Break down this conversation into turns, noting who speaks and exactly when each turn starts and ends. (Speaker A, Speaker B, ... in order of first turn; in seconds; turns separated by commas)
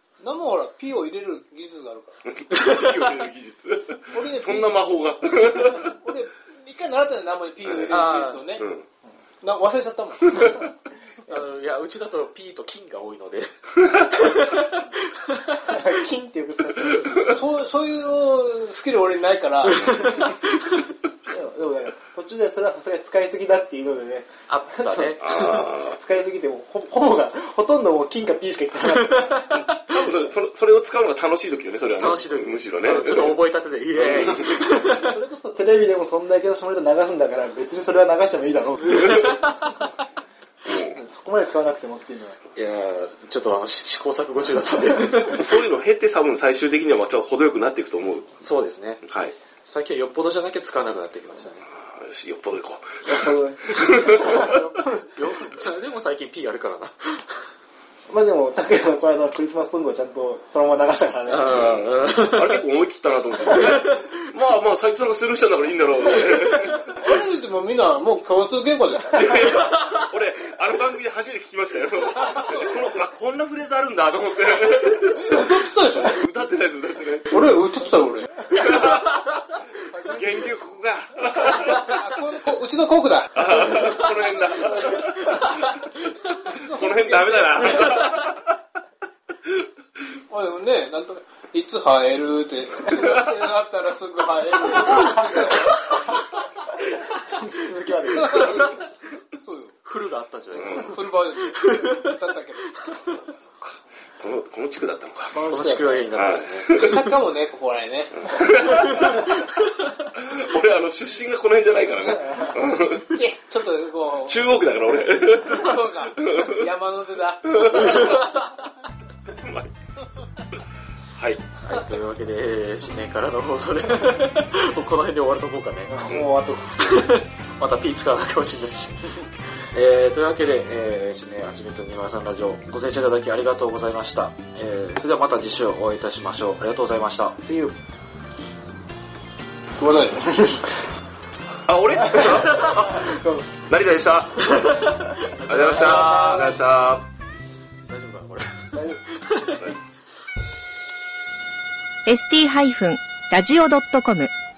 Speaker A: 0.2-2.2, Speaker B: 2.2-6.0, Speaker C: 2.7-3.0, Speaker A: 4.1-4.9, Speaker A: 6.0-8.7, Speaker B: 7.6-8.9, Speaker C: 7.9-8.5, Speaker A: 9.4-10.7, Speaker C: 11.3-15.8, Speaker D: 15.7-17.4, Speaker A: 17.2-20.3, Speaker C: 19.9-20.8, Speaker B: 19.9-20.2, Speaker D: 21.3-29.6, Speaker C: 24.5-25.2, Speaker B: 25.2-26.0, Speaker C: 28.9-29.8, Speaker B: 29.7-33.4, Speaker C: 32.0-35.1, Speaker B: 33.9-34.7, Speaker D: 34.0-39.8, Speaker B: 38.9-39.3, Speaker C: 39.0-39.8, Speaker B: 40.6-41.0, Speaker D: 40.7-42.4, Speaker C: 42.6-45.5, Speaker B: 45.3-48.4, Speaker C: 48.4-49.0, Speaker B: 49.0-49.4, Speaker C: 49.7-51.7, Speaker B: 51.9-54.5, Speaker D: 53.1-55.2, Speaker C: 54.1-57.4, Speaker D: 58.1-61.6, Speaker C: 61.3-62.6, Speaker B: 61.5-67.0, Speaker C: 63.5-63.9, Speaker A: 66.9-69.4, Speaker B: 69.1-77.5, Speaker A: 75.2-76.2, Speaker A: 77.3-78.4, Speaker B: 78.5-82.1, Speaker D: 79.9-80.2, Speaker A: 81.4-83.8, Speaker B: 83.3-85.8, Speaker C: 85.3-85.9, Speaker A: 86.2-87.8, Speaker B: 86.7-88.5, Speaker A: 90.3-95.8, Speaker D: 96.8-98.7, Speaker A: 98.2-98.8, Speaker A: 99.4-99.8, Speaker C: 99.8-101.0, Speaker B: 100.6-101.0, Speaker A: 100.7-102.7, Speaker C: 101.6-102.0, Speaker B: 103.0-105.4, Speaker D: 105.3-106.1, Speaker C: 105.5-107.1, Speaker B: 106.1-107.0, Speaker A: 106.7-108.2, Speaker B: 108.2-109.5, Speaker C: 109.0-109.5, Speaker B: 110.0-113.1, Speaker A: 113.0-114.7, Speaker B: 114.3-116.6, Speaker A: 115.2-118.4, Speaker B: 117.5-118.2, Speaker B: 119.3-119.7, Speaker B: 121.2-121.5, Speaker C: 121.6-126.2, Speaker D: 125.9-127.0, Speaker C: 126.8-137.4, Speaker D: 137.4-137.8, Speaker A: 139.8-140.5, Speaker B: 141.7-144.6, Speaker D: 142.1-143.6, Speaker C: 144.5-146.6, Speaker B: 145.5-147.1, Speaker D: 145.6-146.6, Speaker C: 147.9-149.7, Speaker D: 148.7-149.0, Speaker E: 152.1-154.3